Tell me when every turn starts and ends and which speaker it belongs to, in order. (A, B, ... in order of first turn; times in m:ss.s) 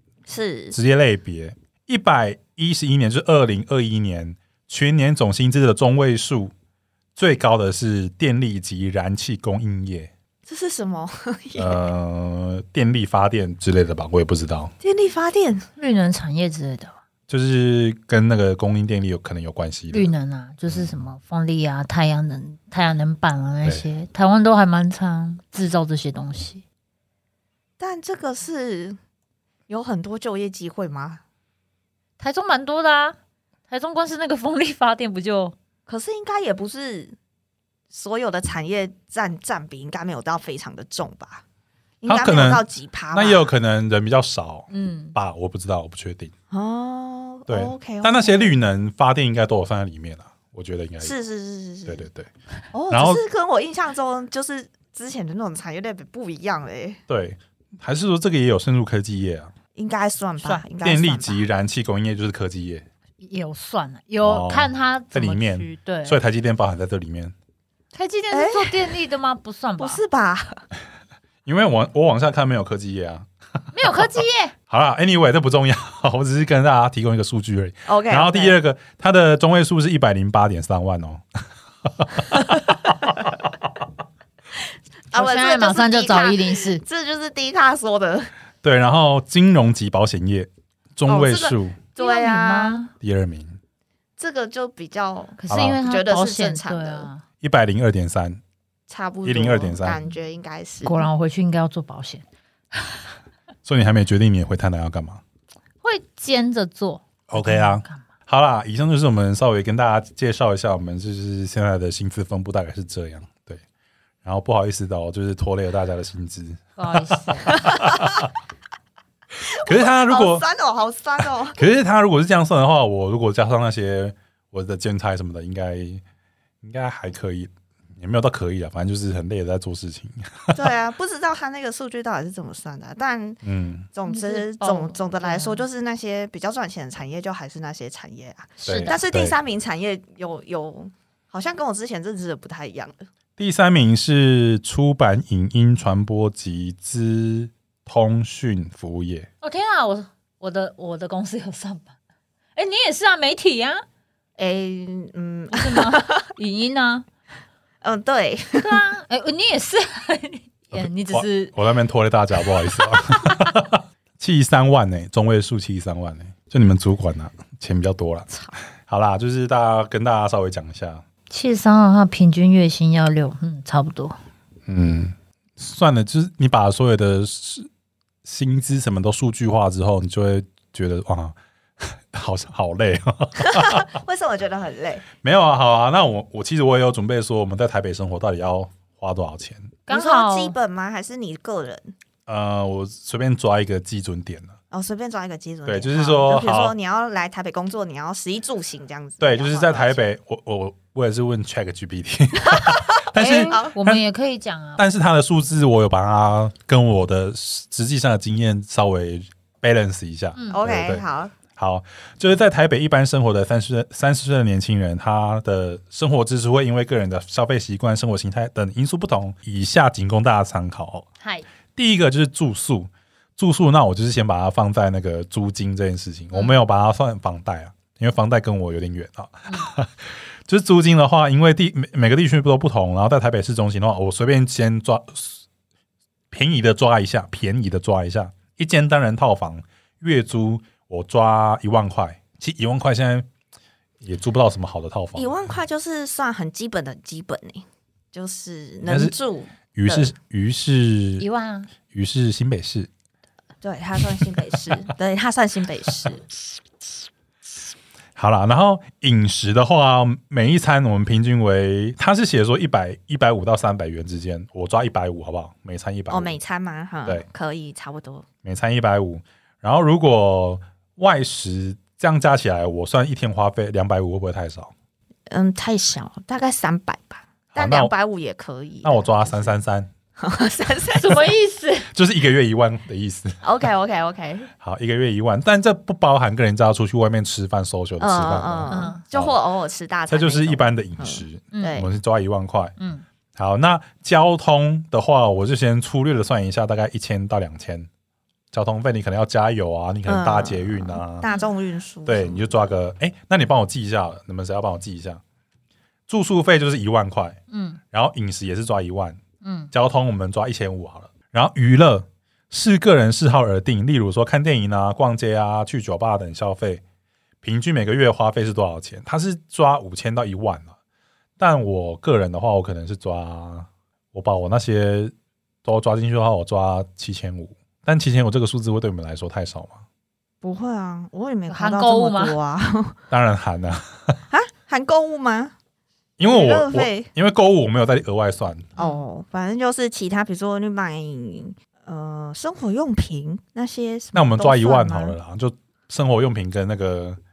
0:00.3-0:00.8 A
0:00.7-0:06.5 B
0:07.2-0:10.1 B
0:10.4-0:11.8 A
0:11.6-0:14.7 B
0:14.8-0:15.6 A
0:15.8-0:16.9 C
0:17.3-0:20.1 B
0:19.9-0:26.6 C
0:20.7-0:21.0 B
0:27.8-0:29.0 A
0:29.7-0:31.2 A
0:32.2-0:33.2 C
0:33.7-0:35.5 C
0:35.9-0:37.2 A
0:37.9-0:41.4 A
0:42.0-0:43.5 A
0:42.0-0:46.3 B
0:44.7-0:45.2 C
0:46.5-0:48.5 A
0:47.5-0:51.1 B
0:51.0-0:52.1 A
0:51.8-0:52.3 B
0:52.7-0:57.0 A
0:52.9-0:53.2 B
0:57.1-0:59.5 B
0:59.7-1:01.4 A
1:00.8-1:02.8 B
1:03.2-1:06.2 C
1:04.2-1:07.3 B
1:07.9-1:10.0 C
1:08.3-1:08.9 A
1:09.8-1:10.6 A
1:11.4-1:13.3 B
1:13.7-1:14.5 C
1:14.7-1:21.2 B
1:17.8-1:18.6 A
1:22.0-1:22.6 B
1:25.1-1:28.3 A
1:25.1-1:26.8 C
1:28.6-1:31.8 B
1:31.1-1:32.8 A
1:32.0-1:32.9 C
1:33.0-1:33.6 B
1:34.2-1:37.1 A
1:35.4-1:37.2 C
1:35.5-1:35.8 B
1:37.4-1:38.4 B
1:38.9-1:41.1 A
1:39.2-1:40.0 B
1:40.8-1:43.0 C
1:43.6-1:45.2 B
1:45.8-1:48.0 C
1:47.3-1:53.6 B
1:54.2-1:58.2 B
1:56.8-1:57.6 C
1:59.5-2:01.6 A
1:59.6-2:00.4 B
2:01.5-2:06.0 B
2:06.6-2:10.6 B
2:10.5-2:13.4 A
2:13.4-2:13.9 B
2:13.9-2:23.0 A
2:14.1-2:15.6 C
2:18.6-2:19.4 B
2:18.6-2:19.0 C
2:23.4-2:29.3 B
2:29.4-2:31.9 C
2:32.6-2:33.8 C
2:34.4-2:36.2 A
2:35.5-2:37.0 C
2:37.8-2:38.8 A
2:38.6-2:41.5 C
2:40.7-2:48.3 B
2:42.7-2:43.4 C
2:48.8-2:51.0 B
2:51.3-2:54.2 C
2:54.7-2:57.7 B
2:58.2-3:03.9 B
3:03.4-3:05.0 A
3:05.2-3:09.8 B
3:09.9-3:10.5 C
3:09.9-3:11.9 A
3:12.2-3:14.6 B
3:14.7-3:20.0 A
3:15.6-3:16.7 B
3:19.2-3:24.0 B
3:22.4-3:23.7 A
3:23.2-3:24.8 C
3:24.8-3:41.1 B
3:30.4-3:30.6 C
3:30.5-3:31.3 A
3:41.8-3:55.4 B
3:46.3-3:46.6 C
3:56.3-4:03.3 B
4:04.0-4:05.3 B
4:05.1-4:10.1 A
4:08.8-4:09.1 B
4:09.7-4:11.3 B
4:11.2-4:11.7 C
4:11.9-4:12.9 B
4:13.6-4:16.2 A
4:18.2-4:26.4 B
4:26.1-4:28.2 A
4:28.4-4:34.7 B
4:35.3-4:39.5 A
4:37.5-4:37.9 B
4:38.8-4:39.9 B
4:40.2-4:41.3 A
4:40.9-4:41.9 C
4:41.9-4:43.4 B
4:43.4-4:44.5 A
4:44.6-4:49.3 B
4:48.0-4:51.9 A
4:48.7-4:49.0 C
4:50.1-4:52.7 B
4:51.5-4:51.8 C
4:52.8-4:53.0 C
4:53.3-4:57.9 B
4:58.5-5:01.3 B
5:00.0-5:02.4 A
5:01.2-5:01.5 C
5:02.0-5:05.2 B
5:06.1-5:07.4 B
5:07.5-5:07.8 C
5:07.9-5:09.2 B
5:09.4-5:09.7 C
5:09.7-5:16.8 B
5:17.4-5:20.7 B
5:21.4-5:25.1 B
5:25.6-5:29.8 B
5:30.4-5:32.9 A
5:31.5-5:32.4 C
5:33.1-5:34.2 B
5:34.3-5:35.5 A
5:36.2-5:38.7 B
5:36.3-5:37.1 A
5:38.8-5:39.0 C
5:38.8-5:45.2 A
5:44.1-5:47.2 B